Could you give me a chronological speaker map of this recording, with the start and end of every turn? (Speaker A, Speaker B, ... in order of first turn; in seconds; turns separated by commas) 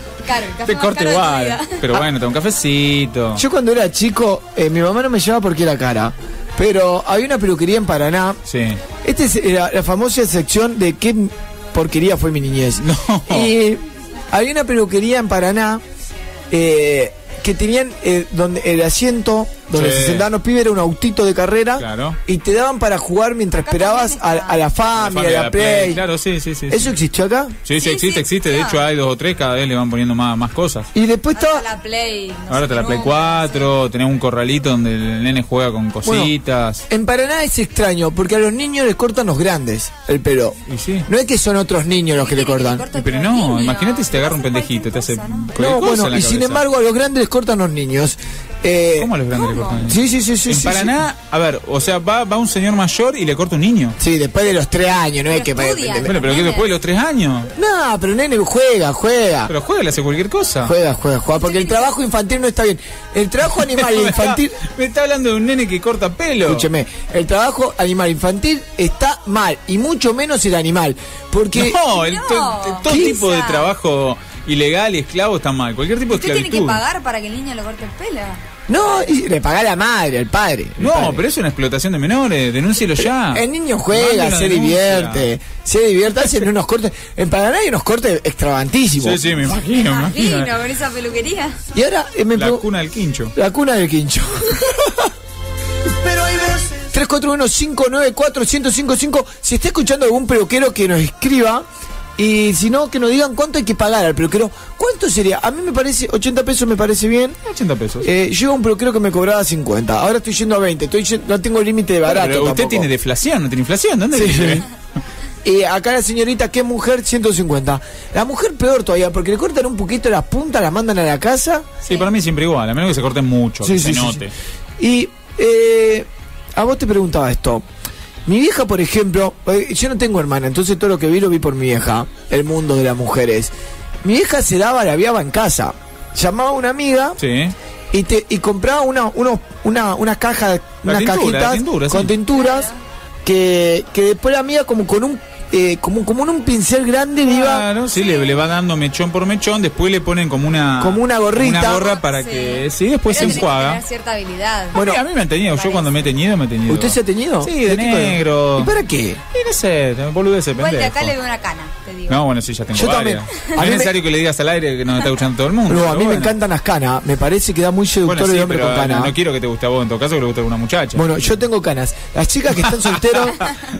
Speaker A: 0.2-2.0, Speaker B: 0.6-3.4, Speaker C: 3.4-8.4, Speaker B: 8.4-8.8, Speaker C: 9.0-15.8, Speaker B: 12.8-13.5, Speaker C: 16.5-26.0, Speaker B: 19.7-20.3, Speaker B: 21.8-22.2, Speaker A: 23.6-24.9, Speaker B: 24.9-26.9, Speaker C: 26.7-27.6, Speaker B: 27.6-30.9, Speaker A: 27.8-28.9, Speaker C: 30.9-31.7, Speaker A: 31.3-33.7, Speaker B: 32.5-36.8, Speaker C: 36.0-36.3, Speaker C: 36.9-42.8, Speaker B: 40.7-41.1, Speaker A: 42.1-45.5, Speaker B: 42.9-46.6, Speaker C: 45.5-49.1, Speaker B: 49.0-54.0, Speaker A: 49.3-49.9, Speaker C: 49.8-51.0, Speaker C: 54.0-56.2, Speaker A: 55.2-56.7, Speaker B: 56.0-57.5, Speaker C: 57.6-59.5, Speaker B: 59.5-60.8, Speaker C: 60.6-64.6, Speaker A: 61.3-62.0, Speaker B: 63.6-66.7, Speaker C: 66.5-71.8, Speaker B: 71.5-76.8, Speaker A: 71.9-73.7, Speaker C: 72.9-73.2, Speaker A: 76.1-78.4, Speaker C: 78.7-81.2, Speaker B: 80.8-85.3, Speaker C: 83.0-89.3, Speaker B: 89.0-90.5, Speaker A: 89.7-91.6, Speaker C: 91.7-92.7, Speaker B: 92.3-93.3, Speaker C: 93.3-95.1, Speaker C: 96.0-101.6, Speaker C: 102.2-107.4, Speaker B: 107.5-108.1, Speaker C: 108.0-112.9, Speaker B: 112.0-114.7, Speaker C: 114.1-114.7, Speaker C: 115.4-121.7, Speaker B: 121.8-124.3, Speaker C: 123.6-124.2, Speaker C: 124.8-127.6, Speaker C: 128.2-133.5, Speaker C: 134.0-137.2, Speaker B: 137.2-137.6, Speaker C: 137.9-142.7, Speaker B: 140.9-142.2, Speaker A: 142.3-142.8, Speaker C: 143.2-147.7, Speaker B: 147.2-153.8, Speaker A: 147.9-148.4, Speaker C: 150.8-151.9, Speaker A: 151.9-154.9, Speaker C: 153.2-153.4, Speaker B: 154.7-158.8, Speaker C: 154.8-155.0, Speaker A: 155.5-156.1, Speaker C: 156.7-159.2, Speaker B: 159.3-161.1, Speaker A: 160.6-162.2, Speaker B: 162.1-166.4, Speaker C: 162.7-163.9, Speaker C: 165.7-169.1, Speaker B: 168.1-171.4, Speaker C: 170.9-173.6